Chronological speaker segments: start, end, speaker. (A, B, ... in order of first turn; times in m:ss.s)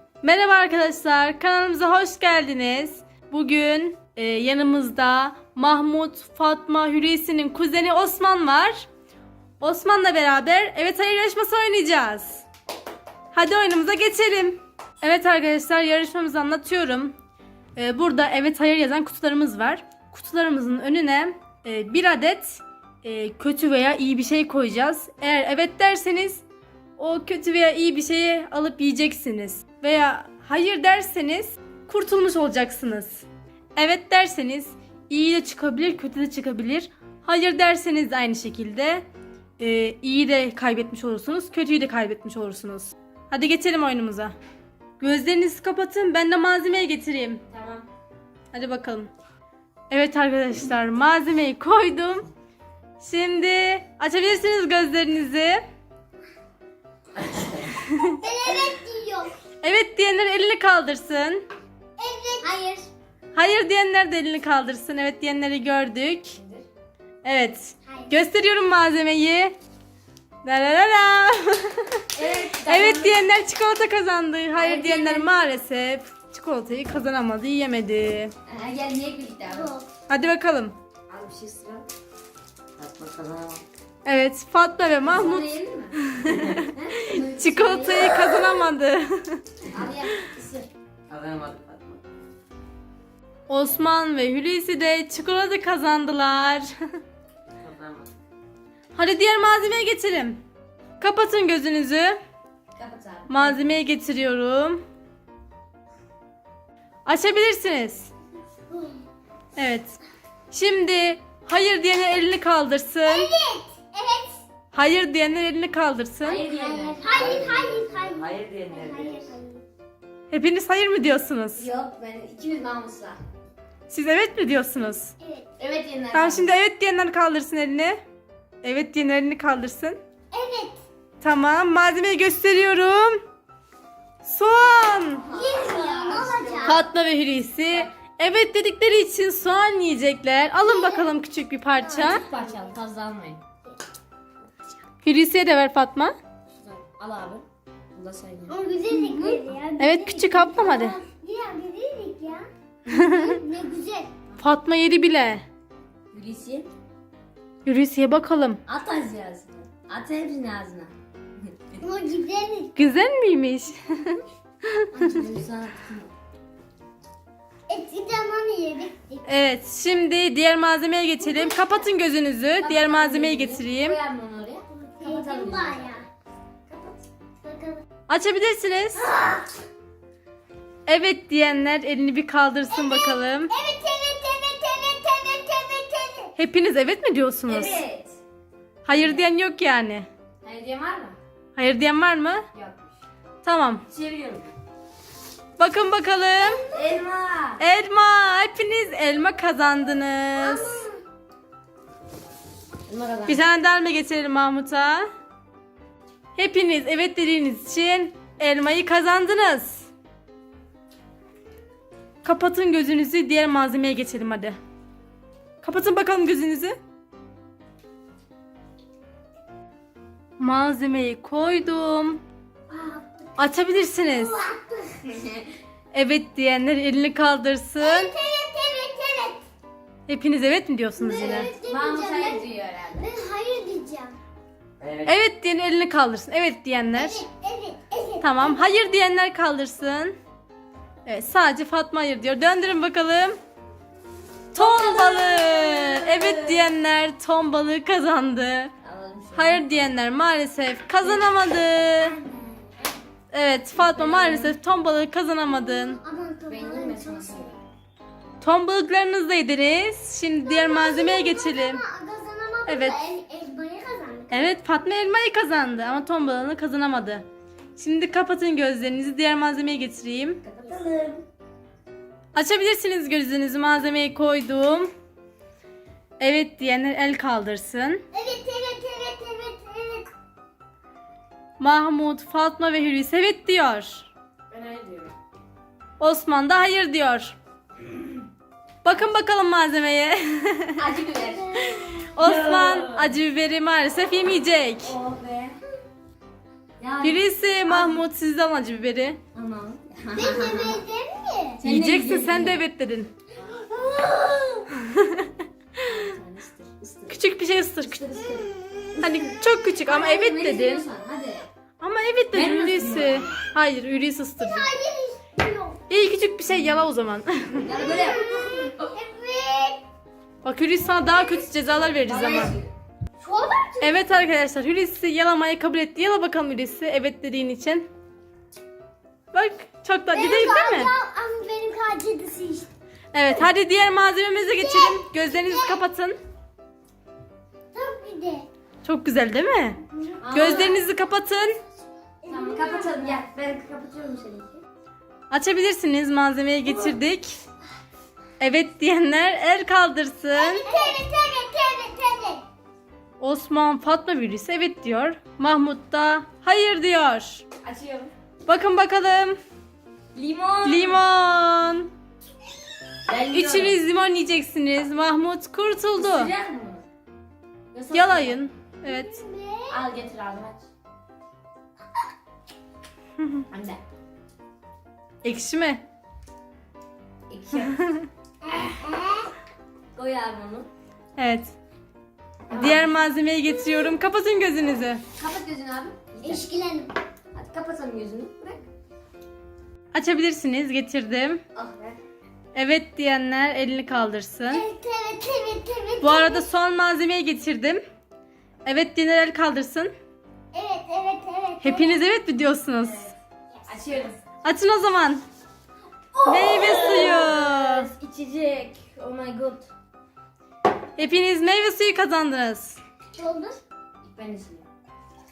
0:00.2-0:08.8 A
0:09.6-0:12.4 A
0:13.3-0:17.1 A
0:17.8-0:26.4 A
0:27.0-0:33.2 A
0:33.8-0:39.0 A
0:39.6-0:44.3 A
0:45.0-0:47.4 A
0:47.5-0:47.9 B
0:48.5-0:49.1 A
0:49.9-0:52.2 A
0:53.0-0:55.6 A
0:57.9-0:58.1 A
0:58.0-0:59.3 C
0:59.6-1:01.5 A
1:02.0-1:02.5 C
1:02.4-1:02.9 B
1:03.3-1:06.4 A
1:06.3-1:06.6 B
1:07.2-1:09.5 A
1:07.8-1:08.2 C
1:10.4-1:12.0 A
1:12.1-1:13.3 B
1:12.6-1:18.3 A
1:14.5-1:15.3 B
1:18.4-1:19.7 B
1:19.5-1:19.9 C
1:20.1-1:20.7 A
1:21.1-1:21.8 B
1:22.8-1:23.6 D
1:24.0-1:29.6 A
1:25.0-1:28.3 B
1:29.7-1:30.7 B
1:31.1-1:32.0 D
1:33.5-1:36.7 A
1:37.6-1:38.1 D
1:38.9-1:40.4 A
1:41.0-1:42.2 A
1:42.8-1:43.7 B
1:43.3-1:44.8 A
1:47.0-1:48.1 A
1:48.7-1:49.0 C
1:49.6-1:49.9 A
1:50.5-1:53.3 A
1:53.0-1:54.4 C
1:54.7-1:56.4 A
1:56.2-1:57.6 B
1:56.5-1:59.6 C
1:57.1-1:59.1 D
1:58.5-1:59.3 B
2:00.3-2:01.7 A
2:01.6-2:03.2 B
2:03.9-2:05.1 A
2:05.2-2:05.5 C
2:05.6-2:06.5 B
2:06.1-2:08.0 A
2:08.6-2:10.0 A
2:10.3-2:10.8 C
2:11.2-2:13.2 A
2:14.2-2:15.2 A
2:15.2-2:16.8 B
2:15.3-2:16.8 C
2:16.6-2:22.2 A
2:20.6-2:21.1 C
2:21.8-2:22.8 C
2:21.9-2:23.4 B
2:25.0-2:26.1 A
2:26.6-2:28.5 B
2:28.5-2:34.1 C
2:29.2-2:31.0 A
2:32.9-2:33.4 A
2:34.4-2:35.4 A
2:36.1-2:36.7 B
2:37.6-2:38.6 A
2:38.7-2:41.8 B
2:41.8-2:42.8 C
2:42.8-2:45.2 A
2:44.9-2:46.1 B
2:47.7-2:49.3 C
2:49.2-2:54.0 A
2:51.2-2:51.8 C
2:52.6-2:56.0 B
2:54.7-2:56.0 C
2:56.7-2:57.0 B
2:57.4-2:57.8 C
2:58.1-2:59.1 A
2:59.0-2:59.5 B
3:00.8-3:03.5 A
3:02.7-3:06.3 C
3:06.4-3:07.8 A
3:07.5-3:08.2 B
3:08.8-3:10.1 A
3:08.9-3:09.2 B
3:10.4-3:11.2 B
3:11.6-3:12.4 A
3:12.5-3:12.8 B
3:13.4-3:13.8 A
3:13.9-3:14.5 B
3:15.6-3:16.6 A
3:16.4-3:16.8 C
3:16.7-3:17.6 B
3:17.6-3:20.8 A
3:20.4-3:21.0 C
3:22.9-3:23.4 B
3:23.2-3:25.1 A
3:26.4-3:29.9 A
3:32.2-3:34.6 A
3:35.6-3:36.8 A
3:40.4-3:42.2 A
3:42.7-3:43.3 C
3:43.4-3:44.3 A
3:44.0-3:45.0 C
3:45.9-3:48.1 A
3:47.8-3:49.4 C
3:50.1-3:51.5 A
3:51.0-3:54.2 C
3:51.1-3:53.1 B
3:55.0-3:57.2 A
3:56.9-3:58.6 C
3:58.2-4:00.1 A
4:01.0-4:03.4 A
4:04.5-4:08.7 A
4:05.0-4:06.6 B
4:08.8-4:09.6 B
4:09.3-4:12.2 A
4:11.0-4:11.3 B
4:12.0-4:12.9 C
4:13.3-4:16.0 A
4:13.8-4:14.6 B
4:15.4-4:17.6 C
4:16.5-4:17.6 B
4:18.4-4:21.8 A
4:20.4-4:24.6 C
4:22.7-4:23.0 A
4:24.3-4:27.2 A
4:27.8-4:30.4 A
4:30.4-4:31.2 B
4:32.3-4:34.9 A
4:36.2-4:38.0 A
4:38.1-4:40.1 C
4:41.6-4:44.1 A
4:44.5-4:45.1 B
4:46.0-4:47.3 A
4:48.8-4:51.0 A
4:50.8-4:53.1 B
4:51.3-4:51.9 C
4:52.1-4:55.0 A
4:54.8-4:55.6 B
4:56.8-4:58.0 B
4:57.0-4:59.2 A
4:59.3-5:00.8 B
5:00.1-5:01.6 C
5:01.6-5:02.6 B
5:01.6-5:03.1 A
5:03.5-5:04.7 B
5:04.9-5:05.3 A
5:05.9-5:07.2 B
5:07.1-5:08.3 A
5:07.8-5:11.4 B
5:09.0-5:10.8 A
5:11.8-5:14.7 A
5:12.3-5:13.4 B
5:14.4-5:15.8 C
5:15.9-5:17.8 A
5:17.6-5:18.6 B
5:17.7-5:19.8 C
5:20.4-5:22.5 A
5:21.0-5:21.8 C
5:22.0-5:22.7 B
5:23.2-5:24.0 C
5:23.8-5:27.9 A
5:29.3-5:30.9 A
5:30.1-5:32.7 C
5:33.1-5:36.2 A
5:34.6-5:35.8 C
5:37.7-5:38.5 C
5:38.8-5:39.8 A
5:39.9-5:40.7 C
5:40.2-5:40.8 B
5:40.3-5:41.6 A
5:42.2-5:43.2 C
5:42.3-5:44.6 B
5:45.3-5:47.4 A
5:48.4-5:50.7 A
5:50.3-5:52.4 C
5:53.2-5:57.4 A
5:57.6-5:58.1 B
5:58.4-5:59.4 A
6:00.1-6:01.0 B
6:00.6-6:01.9 A
6:03.0-6:03.8 B
6:03.3-6:06.3 A
6:06.0-6:06.8 B
6:07.7-6:08.5 B
6:07.9-6:09.2 A
6:08.8-6:09.8 C
6:09.7-6:10.7 B
6:13.5-6:13.8 B
6:15.2-6:15.8 A
6:17.3-6:17.9 B
6:18.4-6:19.3 C
6:19.9-6:20.7 B
6:21.2-6:21.5 A
6:22.5-6:22.9 B
6:22.5-6:25.0 A
6:25.2-6:26.5 B
6:26.2-6:26.9 C
6:27.3-6:28.6 B
6:29.9-6:31.4 A
6:31.6-6:32.0 B
6:32.5-6:34.6 A
6:34.5-6:36.4 C
6:36.0-6:37.8 A
6:38.6-6:39.9 A
6:40.5-6:42.0 C
6:41.6-6:43.1 A
6:42.8-6:43.1 B
6:43.7-6:44.3 B
6:44.4-6:45.2 A
6:46.1-6:49.7 B
6:46.2-6:47.9 A
6:51.0-6:52.8 A
6:53.1-6:53.6 C
6:54.0-6:54.7 B